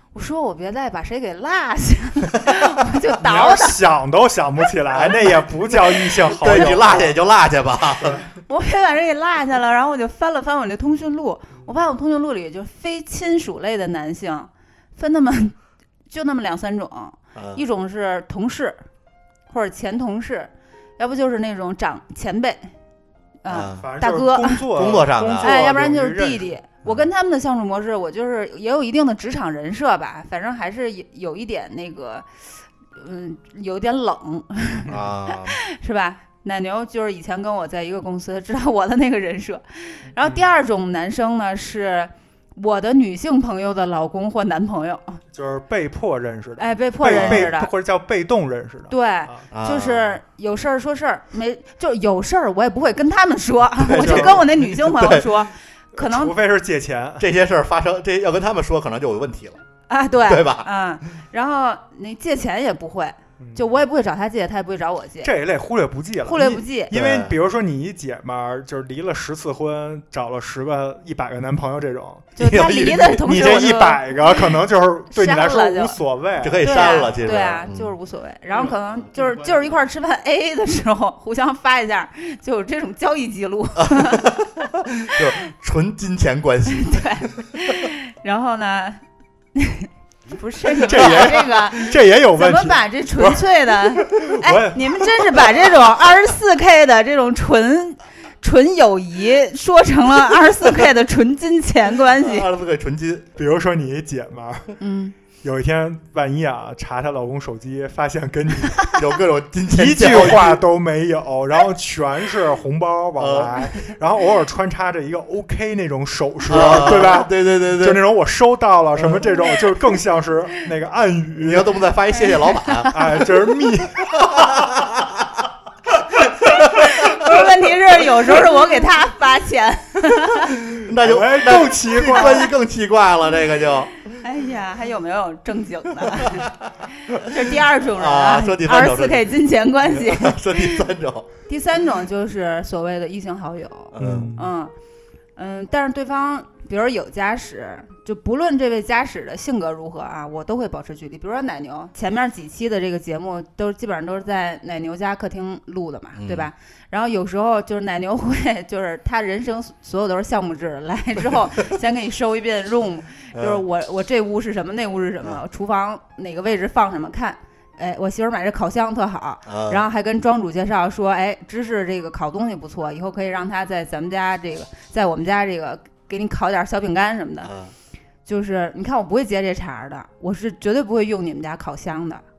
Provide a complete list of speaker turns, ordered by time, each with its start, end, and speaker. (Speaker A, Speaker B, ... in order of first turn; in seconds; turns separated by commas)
Speaker A: 0.1-3.8, Speaker B: 3.2-7.2, Speaker C: 4.9-8.2, Speaker A: 8.5-15.6, Speaker A: 16.1-18.8, Speaker C: 17.4-17.6, Speaker A: 19.5-22.7, Speaker A: 23.4-24.7, Speaker C: 23.5-23.9, Speaker B: 23.8-26.5, Speaker C: 24.7-25.6, Speaker A: 25.4-45.2, Speaker C: 34.9-35.6, Speaker B: 45.3-49.5, Speaker A: 46.6-47.7, Speaker C: 47.1-47.5, Speaker A: 48.9-56.3, Speaker C: 49.5-50.2, Speaker C: 53.8-55.3, Speaker B: 53.9-54.5, Speaker B: 55.9-57.3, Speaker C: 57.2-59.6, Speaker A: 59.9-65.3, Speaker C: 60.2-60.7, Speaker B: 63.4-63.7, Speaker B: 65.2-77.3, Speaker A: 66.3-66.9, Speaker C: 66.9-67.3, Speaker A: 72.4-74.5, Speaker C: 72.4-73.8, Speaker A: 75.1-76.0, Speaker C: 76.4-77.9, Speaker A: 76.6-84.2, Speaker B: 78.6-79.6, Speaker C: 83.8-87.8, Speaker A: 86.7-89.0, Speaker A: 89.5-102.5, Speaker B: 90.7-95.7, Speaker C: 102.2-103.3, Speaker B: 103.4-104.8, Speaker A: 104.8-105.2, Speaker B: 105.4-109.0, Speaker C: 109.0-110.6, Speaker B: 109.7-121.8, Speaker C: 113.2-113.6, Speaker C: 116.5-118.0, Speaker C: 119.0-119.3, Speaker C: 121.4-123.2, Speaker B: 122.9-124.8, Speaker C: 124.2-125.5, Speaker A: 126.8-130.5, Speaker C: 130.7-134.0, Speaker B: 131.0-132.5, Speaker A: 134.2-136.5, Speaker C: 136.1-139.3, Speaker A: 137.0-140.9, Speaker C: 139.9-141.3, Speaker A: 141.5-144.7, Speaker C: 143.9-144.3, Speaker B: 144.0-144.5, Speaker A: 145.4-177.5, Speaker C: 156.2-156.5, Speaker C: 163.3-163.6, Speaker C: 169.5-169.8, Speaker C: 177.4-177.7, Speaker A: 178.3-182.2